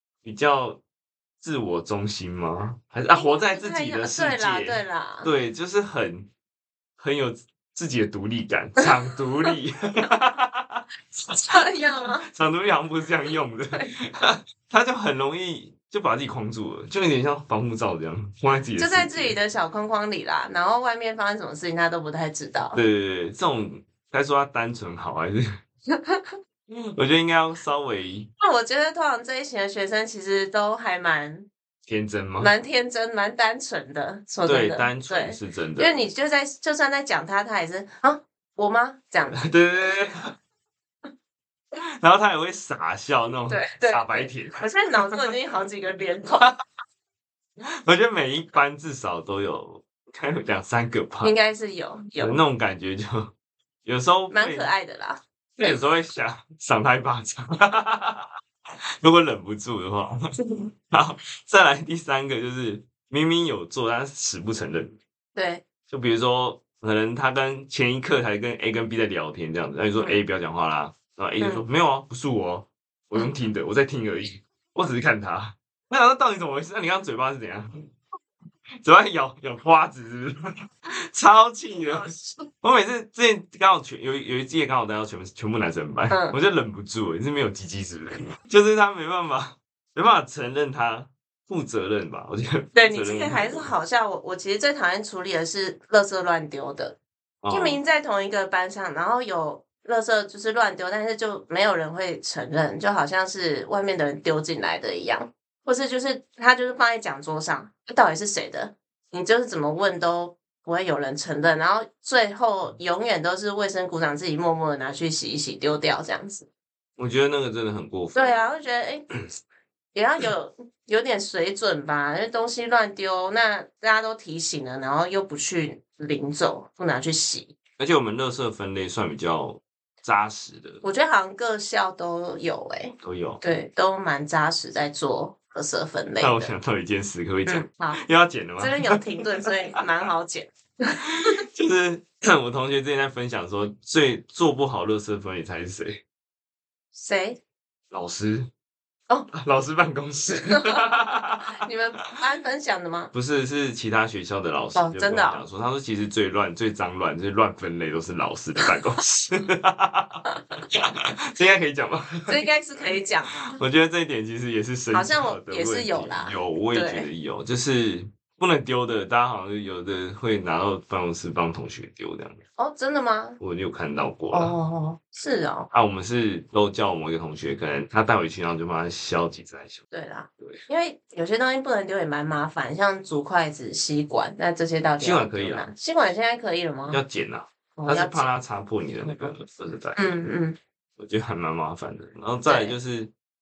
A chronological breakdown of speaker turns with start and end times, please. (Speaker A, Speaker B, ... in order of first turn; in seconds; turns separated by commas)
Speaker A: 0.2-0.8, Speaker A: 1.4-6.3, Speaker B: 3.1-5.3, Speaker A: 7.0-10.8, Speaker B: 11.5-12.3, Speaker A: 12.3-19.4, Speaker B: 18.8-22.8, Speaker A: 22.7-25.5, Speaker B: 26.0-26.3, Speaker A: 26.7-28.3, Speaker B: 28.4-31.5, Speaker A: 31.9-32.5, Speaker B: 32.4-39.5, Speaker A: 34.5-36.0, Speaker A: 39.2-40.3, Speaker A: 42.0-45.2, Speaker B: 43.5-46.5, Speaker A: 47.8-51.3, Speaker B: 51.2-52.4, Speaker A: 52.2-53.3, Speaker A: 53.9-54.7, Speaker B: 54.3-55.8, Speaker A: 55.6-58.3, Speaker A: 59.0-65.0, Speaker B: 65.3-65.7, Speaker A: 65.9-77.7, Speaker B: 71.4-71.7, Speaker A: 78.8-80.4, Speaker A: 81.1-93.7, Speaker B: 86.1-86.4, Speaker B: 92.7-97.0, Speaker A: 97.4-97.8, Speaker B: 97.5-116.5, Speaker A: 117.0-118.4, Speaker B: 118.2-119.1, Speaker B: 119.9-127.5, Speaker A: 127.8-130.8, Speaker B: 130.8-136.5, Speaker A: 133.0-133.4, Speaker A: 136.2-139.0, Speaker B: 137.5-138.0, Speaker B: 138.6-141.0, Speaker A: 141.0-146.0, Speaker B: 146.9-147.4, Speaker A: 147.9-148.5, Speaker A: 149.3-151.5, Speaker B: 150.5-150.8, Speaker B: 151.5-153.1, Speaker A: 153.1-160.2, Speaker B: 154.8-155.4, Speaker A: 160.8-162.4, Speaker B: 162.3-163.5, Speaker A: 163.5-172.4, Speaker B: 164.9-167.1, Speaker B: 172.6-173.4, Speaker A: 173.4-174.5, Speaker B: 174.3-175.7, Speaker A: 175.7-179.8, Speaker B: 179.9-187.0, Speaker A: 185.0-185.7, Speaker A: 186.9-190.2, Speaker B: 187.8-188.3, Speaker B: 190.0-190.6, Speaker A: 191.0-193.1, Speaker B: 192.4-192.8